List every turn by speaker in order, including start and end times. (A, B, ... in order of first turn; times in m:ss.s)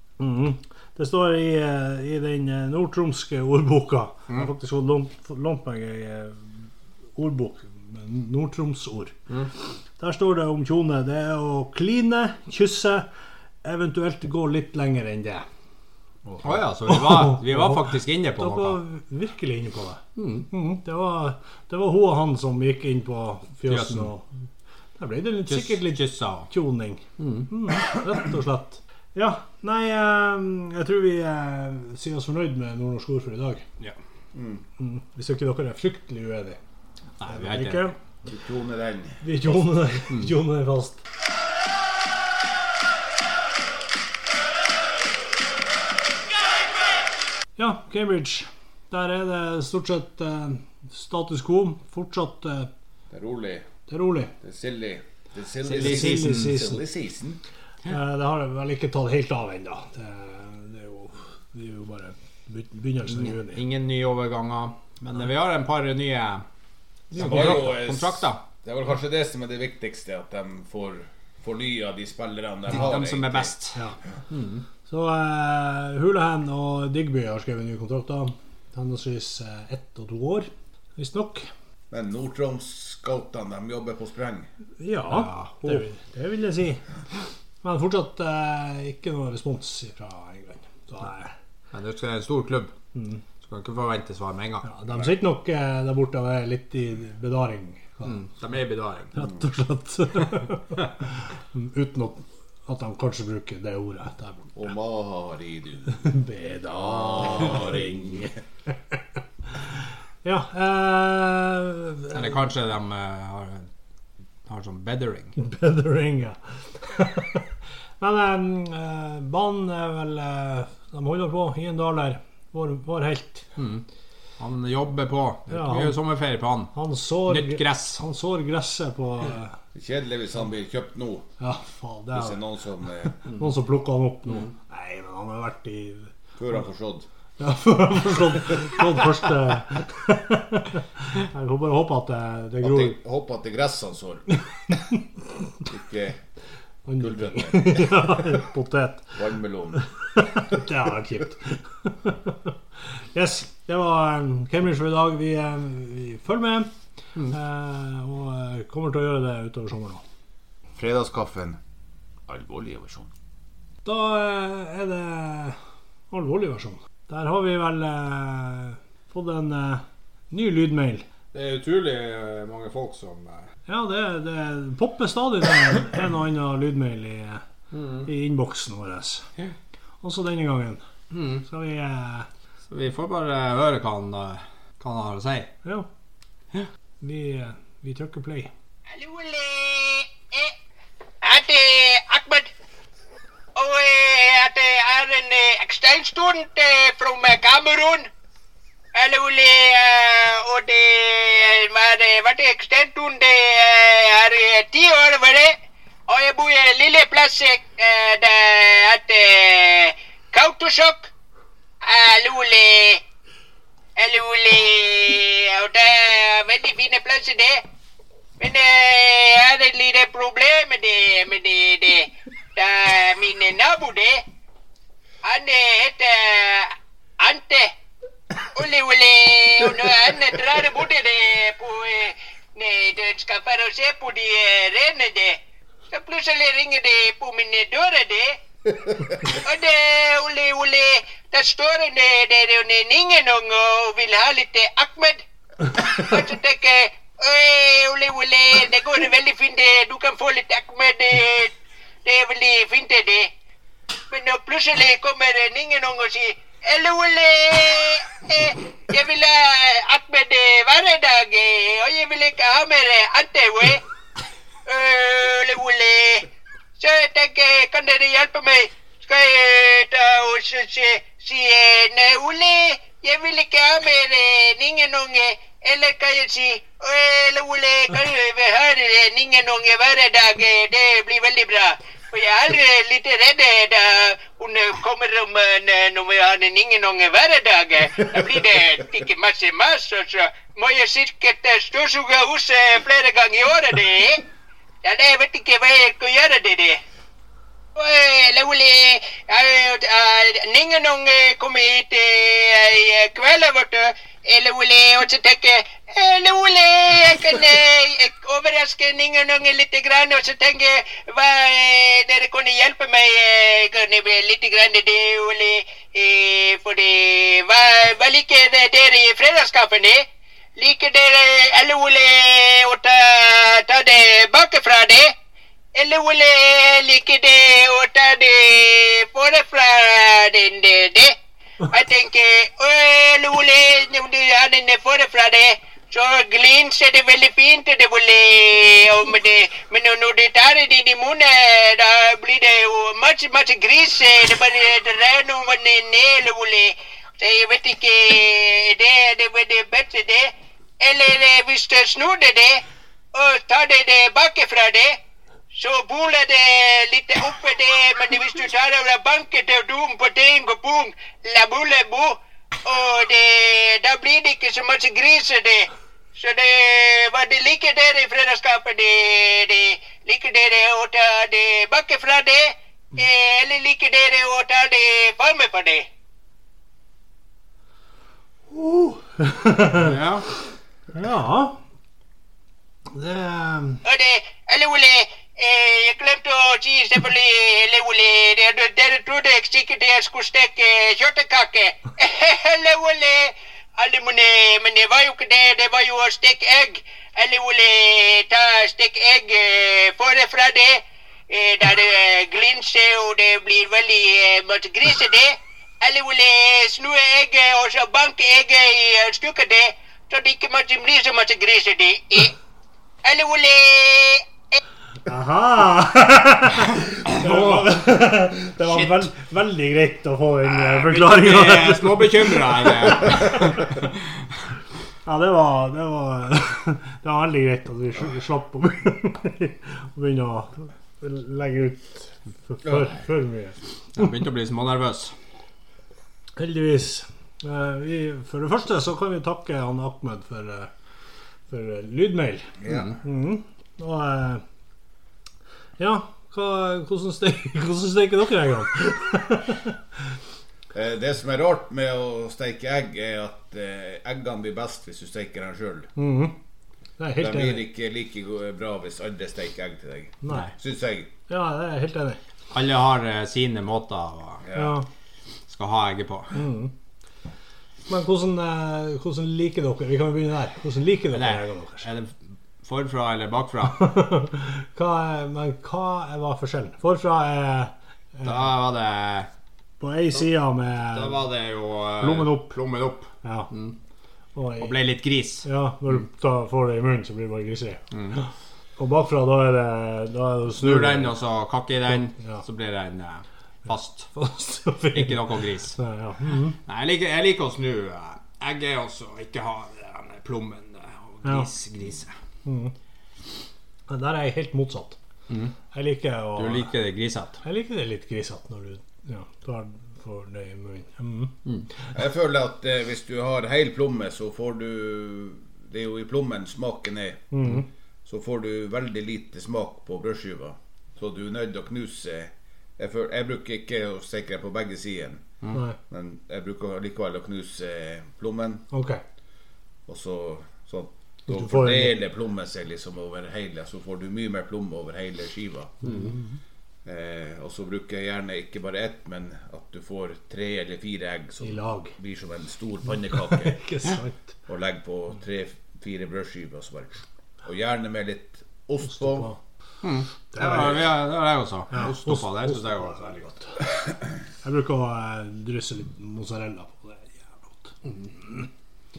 0:00.2-0:06.6 A
0:07.2-0:09.1 A
0:10.0-0:13.1 A
0:13.6-0:15.4 A
0:16.3-0:24.2 A
0:16.4-0:18.8 B
0:20.2-0:20.5 B
0:23.7-0:24.1 B
0:25.0-0:33.6 A
0:25.5-0:26.5 B
0:27.2-0:27.5 B
0:34.3-0:34.6 C
0:34.8-0:36.6 A
0:37.2-0:37.9 B
0:37.3-0:38.0 A
0:38.3-0:39.4 C
0:39.2-0:41.0 A
0:47.6-0:52.7 A
0:53.1-0:53.6 C
0:53.9-0:54.3 A
0:54.4-0:57.4 C
0:55.7-0:56.8 A
0:55.7-0:56.6 B
0:57.9-1:03.6 A
1:03.2-1:06.4 B
1:07.1-1:07.7 A
1:07.1-1:08.4 B
1:07.1-1:13.5 C
1:12.7-1:13.8 B
1:14.3-1:14.6 B
1:14.9-1:21.5 A
1:21.9-1:24.5 C
1:24.8-1:26.8 A
1:25.1-1:25.8 B
1:27.6-1:31.3 A
1:31.7-1:32.7 B
1:33.0-1:33.2 A
1:33.4-1:34.7 B
1:34.6-1:38.2 A
1:38.0-1:39.1 B
1:39.1-1:40.8 A
1:41.5-1:44.5 A
1:44.6-1:46.1 C
1:45.9-1:48.3 A
1:46.6-1:48.3 C
1:50.2-1:52.4 A
1:52.1-1:53.7 B
1:54.5-1:55.4 B
1:55.4-1:57.5 A
1:58.0-2:03.5 A
2:03.6-2:03.8 B
2:04.4-2:06.7 B
2:05.5-2:06.0 A
2:06.7-2:09.6 A
2:07.3-2:08.0 B
2:09.7-2:11.3 C
2:11.4-2:12.4 A
2:12.1-2:13.2 C
2:13.1-2:16.1 A
2:16.4-2:17.1 C
2:17.4-2:23.0 A
2:22.6-2:24.3 C
2:25.6-2:26.2 C
2:26.9-2:29.1 A
2:27.0-2:28.3 C
2:29.1-2:29.8 C
2:29.8-2:32.5 A
2:33.1-2:36.7 A
2:37.3-2:40.0 A
2:40.8-2:41.6 C
2:42.3-2:43.1 C
2:43.8-2:45.6 A
2:46.1-2:51.1 A
2:51.3-2:53.5 B
2:53.7-2:57.4 A
2:57.7-2:58.1 B
2:58.0-2:59.3 A
3:00.0-3:00.8 A
3:01.1-3:01.4 B
3:01.4-3:02.3 A
3:02.7-3:05.5 B
3:07.0-3:08.5 A
3:08.9-3:10.5 D
3:11.2-3:12.5 D
3:13.6-3:18.1 D
3:19.0-3:25.6 D
3:26.1-3:31.1 D
3:31.8-3:33.0 D
3:34.0-3:37.6 D
3:38.4-3:44.2 D
3:45.2-3:47.7 D
3:48.6-3:55.4 D
3:55.9-3:58.4 D
3:59.3-4:11.5 D
4:12.0-4:13.3 D
4:14.1-4:23.8 D
4:24.6-4:26.3 D
4:26.8-4:54.2 D
4:54.8-4:56.8 D
4:57.8-5:20.0 D
5:20.6-5:25.1 D
5:25.8-5:52.6 D
5:53.1-5:55.0 D
5:55.5-6:15.8 D
6:18.5-6:20.0 A
6:19.7-6:20.3 B
6:20.9-6:21.6 A
6:22.9-6:23.8 A
6:23.8-6:52.3 D
6:53.0-6:54.6 D
6:55.1-7:03.8 A
6:57.1-6:57.7 B
6:58.7-6:59.0 B
7:00.6-7:03.9 B
7:05.1-7:13.6 A
7:14.0-7:15.1 B
7:16.4-7:20.7 A
7:21.5-7:24.4 A
7:22.6-7:23.0 C
7:25.8-7:29.8 A
7:30.7-7:35.9 C
7:36.0-7:36.4 A
7:37.0-7:37.6 A
7:37.2-7:41.1 C
7:40.2-7:40.5 A
7:41.3-7:42.2 A
7:42.5-7:44.4 B
7:44.4-7:44.7 C
7:44.5-7:44.9 A
7:45.5-7:46.4 B
7:46.3-7:46.7 A
7:47.9-7:51.9 A
7:51.1-7:54.0 B
7:53.7-7:58.5 A
7:58.2-7:59.3 B
7:59.8-8:01.3 A
8:00.9-8:03.8 B
8:02.0-8:02.6 A
8:03.2-8:03.5 A
8:04.4-8:04.8 A
8:04.6-8:05.5 B
8:05.4-8:11.1 A
8:07.9-8:08.2 B
8:10.6-8:14.1 B
8:12.2-8:12.4 A
8:14.1-8:16.6 A
8:14.9-8:15.8 B
8:16.6-8:22.1 B
8:21.2-8:21.5 A
8:22.4-8:22.7 A
8:23.9-8:25.0 A
8:25.7-8:26.7 A
8:26.4-8:27.4 B
8:27.4-8:31.4 A
8:32.0-8:37.2 C
8:37.3-8:37.7 A
8:38.0-8:45.3 C
8:45.5-8:45.8 A
8:45.9-8:48.6 C
8:48.7-8:49.0 A
8:49.9-8:55.8 C
8:51.3-8:52.0 A
8:55.8-8:56.3 A
8:56.8-9:03.6 C
9:01.4-9:02.0 A
9:03.2-9:04.3 A
9:04.5-9:09.3 C
9:08.8-9:09.4 A
9:09.8-9:13.2 B
9:10.3-9:10.8 A
9:11.7-9:13.6 A
9:14.4-9:18.5 A